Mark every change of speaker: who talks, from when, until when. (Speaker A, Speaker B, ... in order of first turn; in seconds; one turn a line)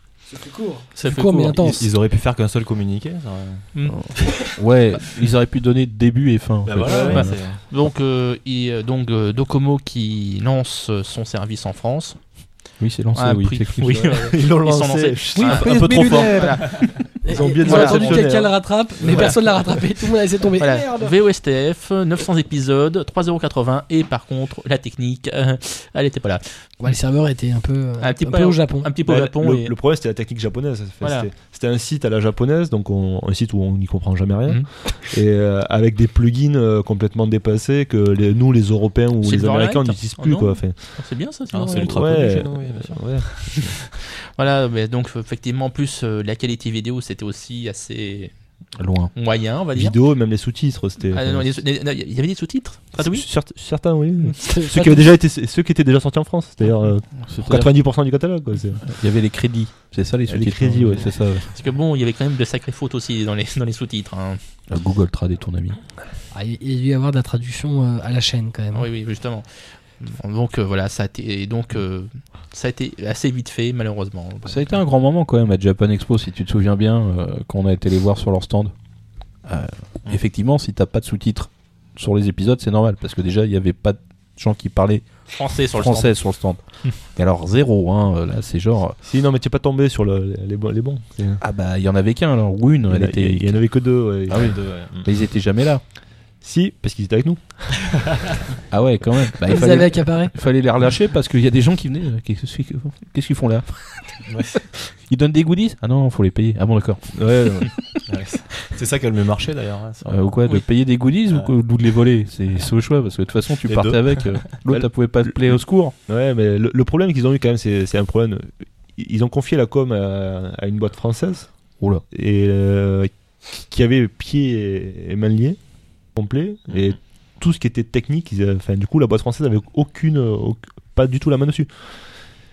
Speaker A: 0.3-1.9
Speaker B: 1.0-1.6
Speaker C: 1.6-4.5
Speaker D: 3.9-7.4
Speaker C: 6.6-7.6
Speaker E: 6.8-7.2
Speaker B: 6.9-12.2
Speaker D: 12.8-14.2
Speaker B: 13.1-17.1
Speaker E: 13.9-16.5
Speaker C: 15.4-17.0
Speaker A: 16.6-21.1
Speaker E: 17.2-19.3
Speaker B: 17.6-18.3
Speaker B: 19.1-19.4
Speaker B: 20.6-26.7
Speaker A: 26.8-28.9
Speaker B: 28.0-29.7
Speaker E: 29.1-41.0
Speaker B: 31.0-31.3
Speaker B: 39.2-42.0
Speaker C: 41.5-43.6
Speaker E: 41.8-43.7
Speaker B: 44.4-48.4
Speaker D: 48.8-49.1
Speaker B: 49.1-50.0
Speaker E: 49.7-51.6
Speaker B: 51.1-53.2
Speaker E: 52.9-58.8
Speaker A: 54.4-55.1
Speaker D: 57.2-57.8
Speaker D: 58.8-61.5
Speaker E: 60.3-61.1
Speaker B: 61.5-64.4
Speaker D: 64.7-65.8
Speaker A: 66.3-68.9
Speaker B: 68.7-74.6
Speaker D: 74.4-78.7
Speaker D: 79.4-85.1
Speaker B: 85.3-86.2
Speaker D: 85.7-89.0
Speaker E: 89.0-91.4
Speaker D: 91.4-93.6
Speaker E: 92.9-94.6
Speaker D: 94.3-95.8
Speaker C: 94.3-95.1
Speaker E: 96.4-98.0
Speaker D: 98.7-104.2
Speaker A: 99.5-100.3
Speaker C: 104.2-104.7
Speaker D: 105.0-107.1
Speaker E: 107.1-107.9
Speaker C: 108.0-110.3
Speaker D: 110.0-115.9
Speaker C: 113.7-114.5
Speaker E: 114.7-125.6
Speaker E: 126.1-132.0